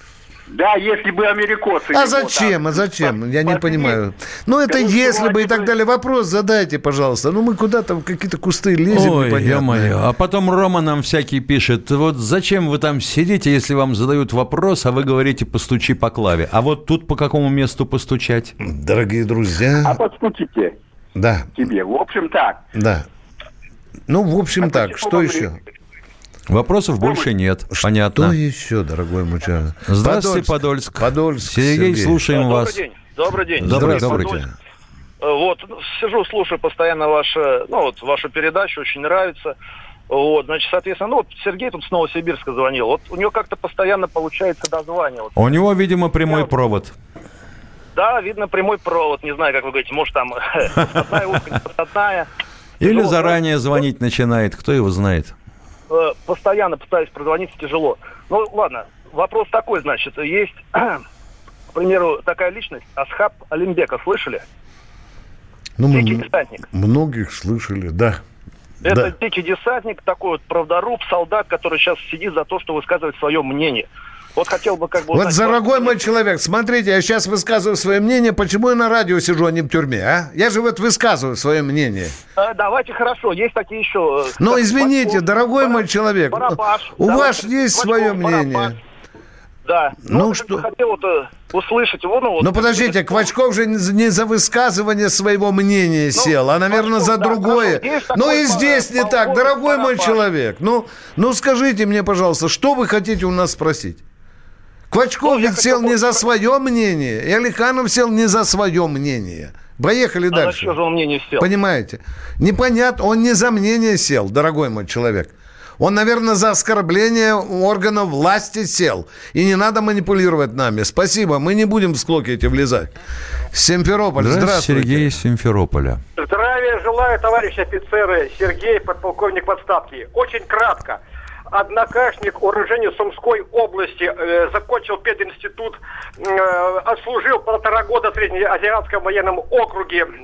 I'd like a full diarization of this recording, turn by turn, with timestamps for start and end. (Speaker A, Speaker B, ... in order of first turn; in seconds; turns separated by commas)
Speaker A: 0.5-4.0, Speaker B: 1.9-9.9, Speaker A: 4.7-5.7, Speaker C: 8.9-18.5, Speaker B: 18.6-20.0, Speaker A: 19.8-20.8, Speaker B: 21.1-21.5, Speaker A: 21.6-22.6, Speaker B: 22.7-23.1, Speaker B: 24.1-25.6, Speaker A: 24.7-25.5, Speaker C: 26.5-28.4, Speaker B: 27.7-32.2, Speaker C: 29.9-32.8, Speaker D: 32.3-34.5, Speaker C: 33.6-34.4, Speaker B: 33.6-34.5, Speaker D: 35.2-39.5, Speaker D: 40.1-45.5, Speaker C: 45.4-46.9, Speaker D: 47.9-52.3, Speaker C: 52.8-55.3, Speaker D: 52.8-53.4, Speaker D: 55.9-61.0, Speaker D: 61.7-64.4, Speaker B: 65.8-68.2, Speaker D: 65.9-66.6, Speaker D: 68.8-76.1, Speaker B: 75.1-82.2, Speaker D: 82.4-88.8, Speaker B: 84.4-88.8, Speaker D: 89.7-93.3, Speaker B: 90.0-90.7, Speaker B: 92.4-104.0, Speaker D: 96.1-100.2, Speaker B: 104.9-110.8, Speaker D: 105.2-106.2, Speaker D: 110.3-111.5, Speaker B: 111.4-122.9, Speaker B: 123.5-125.1, Speaker C: 124.2-126.0, Speaker E: 126.2-131.0, Speaker E: 131.5-140.1